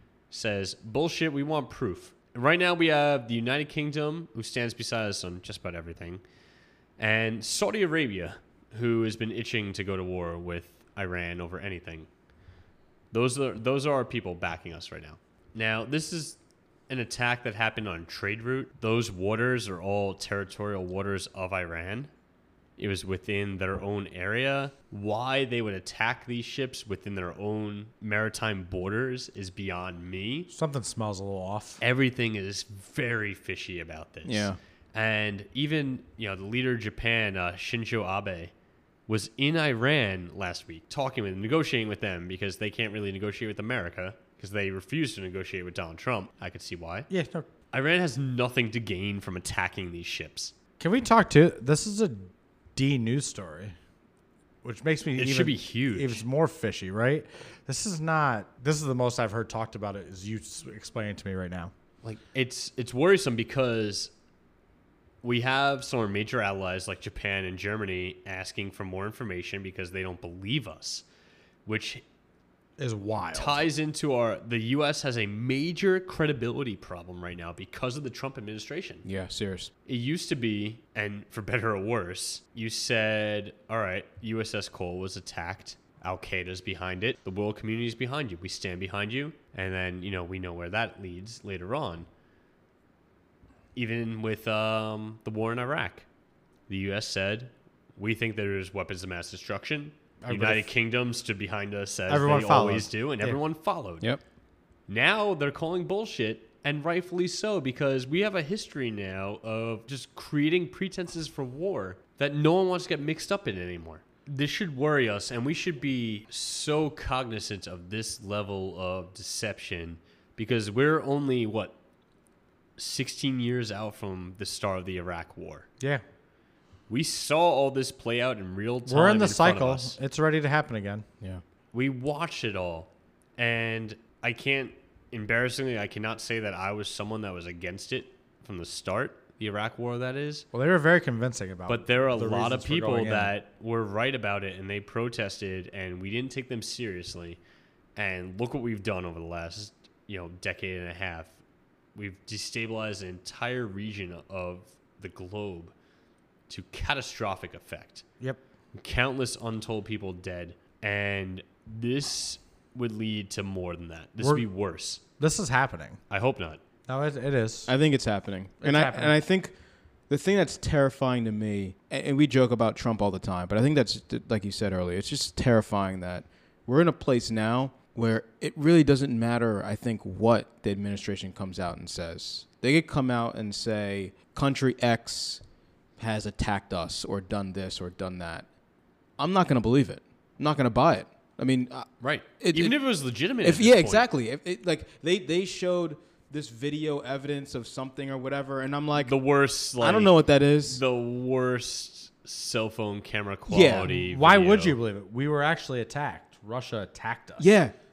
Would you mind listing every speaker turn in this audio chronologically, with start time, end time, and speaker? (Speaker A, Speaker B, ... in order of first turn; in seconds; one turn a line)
Speaker A: 0.3-6.2
Speaker A: 7.0-12.1
Speaker A: 13.1-16.4
Speaker A: 16.9-22.1
Speaker A: 22.8-30.5
Speaker B: 30.5-31.8
Speaker A: 31.8-38.5
Speaker C: 34.2-34.6
Speaker A: 39.1-47.1
Speaker B: 47.1-47.5
Speaker A: 47.7-50.5
Speaker B: 50.8-53.8
Speaker B: 54.6-61.7
Speaker A: 55.2-56.2
Speaker A: 62.0-64.1
Speaker A: 65.2-71.0
Speaker A: 71.7-72.0
Speaker B: 72.8-73.7
Speaker A: 73.3-79.0
Speaker C: 79.0-79.7
Speaker A: 79.9-92.1
Speaker A: 93.8-96.1
Speaker A: 96.7-104.1
Speaker B: 100.2-100.7
Speaker B: 102.1-103.4
Speaker A: 104.9-121.8
Speaker A: 122.8-125.7
Speaker A: 126.9-130.0
Speaker B: 128.9-131.1
Speaker A: 131.7-140.5
Speaker B: 140.5-143.3
Speaker A: 141.7-147.4
Speaker A: 148.0-151.3
Speaker A: 151.9-155.7
Speaker A: 156.5-158.0
Speaker A: 158.8-165.0
Speaker B: 165.2-166.0
Speaker A: 166.1-166.6
Speaker B: 166.9-167.7
Speaker C: 167.7-169.5
Speaker B: 168.6-169.1
Speaker C: 170.1-185.4
Speaker C: 186.0-188.5
Speaker C: 189.2-191.9
Speaker A: 192.0-194.1
Speaker C: 192.4-192.8
Speaker C: 193.4-199.1
Speaker A: 199.0-204.8
Speaker C: 199.8-200.8
Speaker C: 203.5-203.9
Speaker B: 203.9-207.5
Speaker C: 207.4-207.8